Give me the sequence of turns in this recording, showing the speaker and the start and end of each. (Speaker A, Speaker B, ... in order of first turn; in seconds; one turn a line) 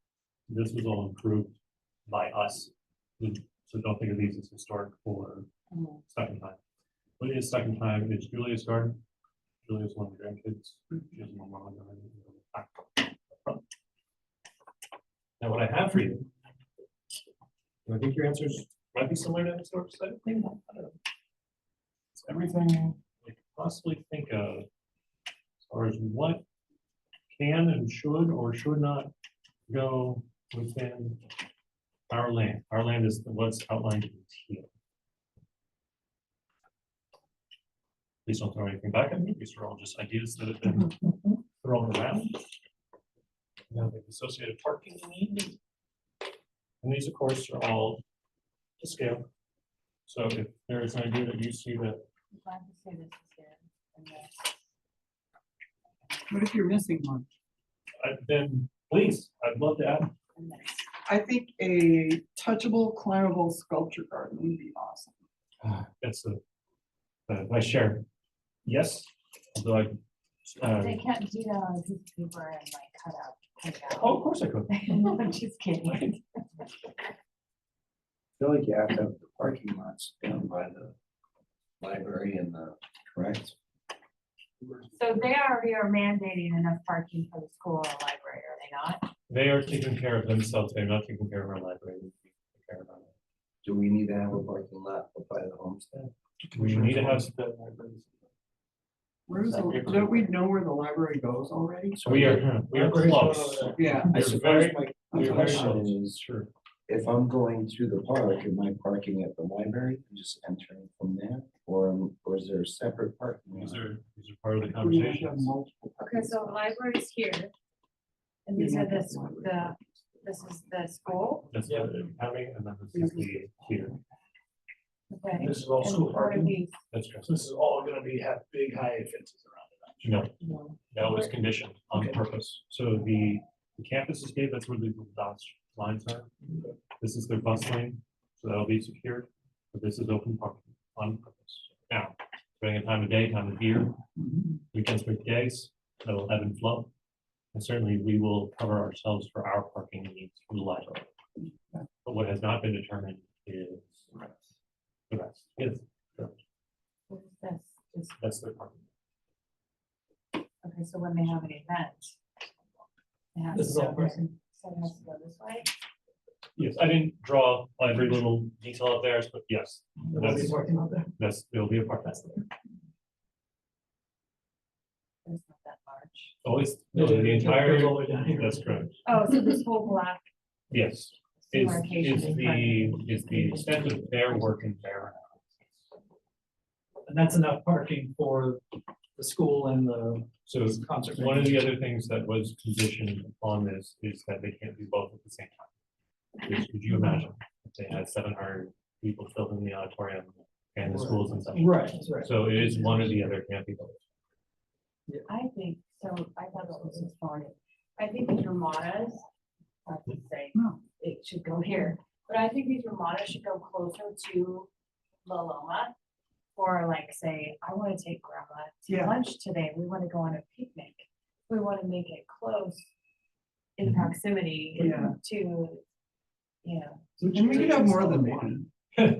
Speaker A: 0.5-1.5
Speaker A: 2.1-5.5
Speaker B: 5.7-6.0
Speaker A: 6.1-6.6
Speaker A: 7.2-9.0
Speaker A: 9.6-13.6
Speaker A: 15.4-16.2
Speaker A: 17.9-20.9
Speaker A: 22.1-24.7
Speaker A: 25.7-26.4
Speaker A: 27.3-29.1
Speaker A: 29.7-31.2
Speaker A: 32.1-34.7
Speaker A: 38.2-42.4
Speaker A: 43.7-45.5
Speaker A: 46.8-48.0
Speaker A: 48.8-49.2
Speaker A: 50.0-52.0
Speaker B: 52.3-54.6
Speaker C: 56.3-57.3
Speaker A: 58.0-60.1
Speaker B: 60.3-60.9
Speaker C: 61.0-65.2
Speaker A: 65.6-66.4
Speaker A: 67.3-68.0
Speaker A: 68.6-71.0
Speaker B: 70.7-76.2
Speaker A: 73.9-74.9
Speaker D: 78.4-80.9
Speaker D: 81.8-83.5
Speaker E: 84.6-84.9
Speaker B: 84.9-89.1
Speaker A: 89.3-93.1
Speaker D: 93.6-96.1
Speaker A: 96.5-97.3
Speaker E: 96.5-98.1
Speaker C: 99.3-102.4
Speaker A: 99.4-100.3
Speaker A: 102.0-106.5
Speaker E: 102.7-103.9
Speaker D: 103.8-106.2
Speaker C: 103.8-104.0
Speaker C: 105.1-105.7
Speaker D: 106.9-113.8
Speaker A: 113.5-115.5
Speaker C: 114.7-116.7
Speaker B: 116.0-117.5
Speaker B: 118.5-121.5
Speaker C: 118.6-119.7
Speaker A: 121.5-124.0
Speaker E: 121.6-121.9
Speaker B: 125.1-126.7
Speaker E: 125.3-126.5
Speaker A: 126.9-127.3
Speaker E: 127.2-130.2
Speaker A: 130.0-130.3
Speaker B: 130.4-131.3
Speaker A: 130.9-136.3
Speaker E: 131.9-132.2
Speaker E: 136.5-136.7
Speaker A: 137.0-144.0
Speaker A: 144.7-146.9
Speaker A: 147.5-151.1
Speaker A: 152.0-154.1
Speaker A: 155.1-156.3
Speaker B: 157.1-158.2
Speaker A: 158.2-158.8
Speaker B: 160.6-162.2
Speaker B: 163.3-165.7
Speaker E: 163.5-164.3
Speaker A: 166.6-170.6
Speaker E: 170.0-171.1
Speaker A: 171.2-172.4
Speaker B: 175.2-176.3
Speaker A: 176.4-178.9
Speaker E: 176.9-178.9
Speaker B: 179.0-180.2
Speaker A: 180.7-185.7
Speaker B: 181.4-183.6
Speaker E: 187.1-188.6
Speaker E: 189.2-191.7
Speaker A: 190.4-195.7
Speaker A: 196.4-204.1
Speaker E: 201.0-203.1
Speaker B: 205.3-209.2
Speaker B: 209.8-214.7
Speaker B: 215.2-215.9
Speaker B: 216.5-222.9
Speaker B: 223.8-225.8
Speaker E: 224.8-225.1
Speaker B: 226.6-228.2
Speaker E: 227.2-228.6
Speaker C: 227.2-228.7